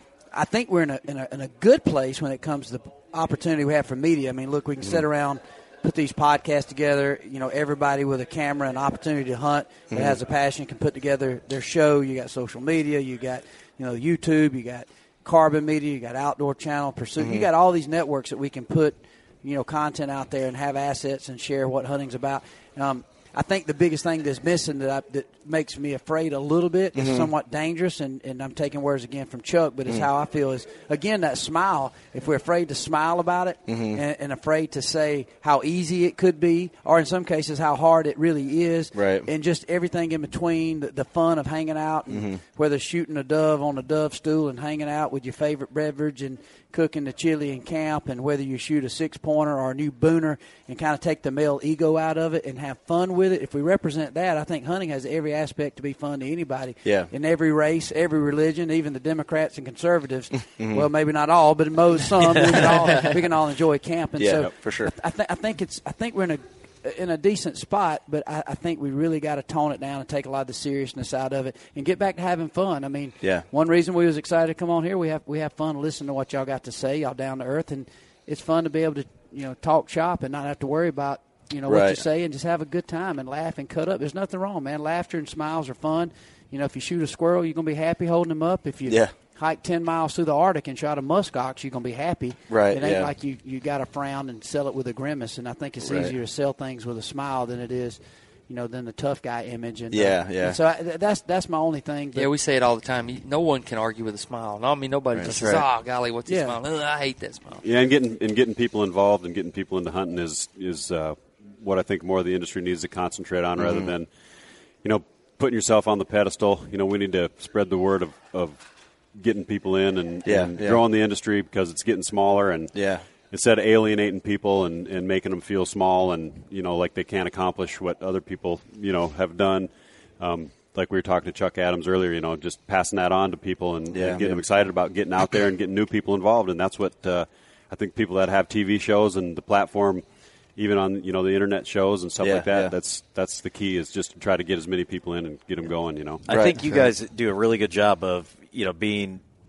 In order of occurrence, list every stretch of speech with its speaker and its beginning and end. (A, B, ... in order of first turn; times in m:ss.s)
0:00.3-1:42.3 A
0:09.9-0:10.2 B
0:17.2-0:17.5 B
0:26.9-0:27.3 B
0:33.7-0:34.0 B
0:38.9-0:39.3 B
0:42.1-0:42.4 B
0:56.8-0:57.1 B
1:00.6-1:00.9 B
1:04.2-1:04.9 B
1:21.7-1:22.0 B
1:28.9-1:29.1 B
1:32.5-1:33.1 B
1:35.8-1:36.1 B
1:39.9-1:40.6 B
1:42.1-1:47.6 C
1:45.1-1:45.4 B
1:45.4-1:45.6 D
1:46.3-1:46.6 A
1:47.6-1:54.1 D
1:53.6-1:53.9 B
1:54.8-1:58.6 D
1:59.1-2:02.7 D
2:00.2-2:00.8 B
2:02.7-2:03.0 B
2:03.3-2:09.7 D
2:10.2-2:20.0 D
2:13.9-2:14.4 B
2:20.6-2:26.2 D
2:22.2-2:22.7 B
2:26.3-2:29.2 E
2:26.3-2:26.6 B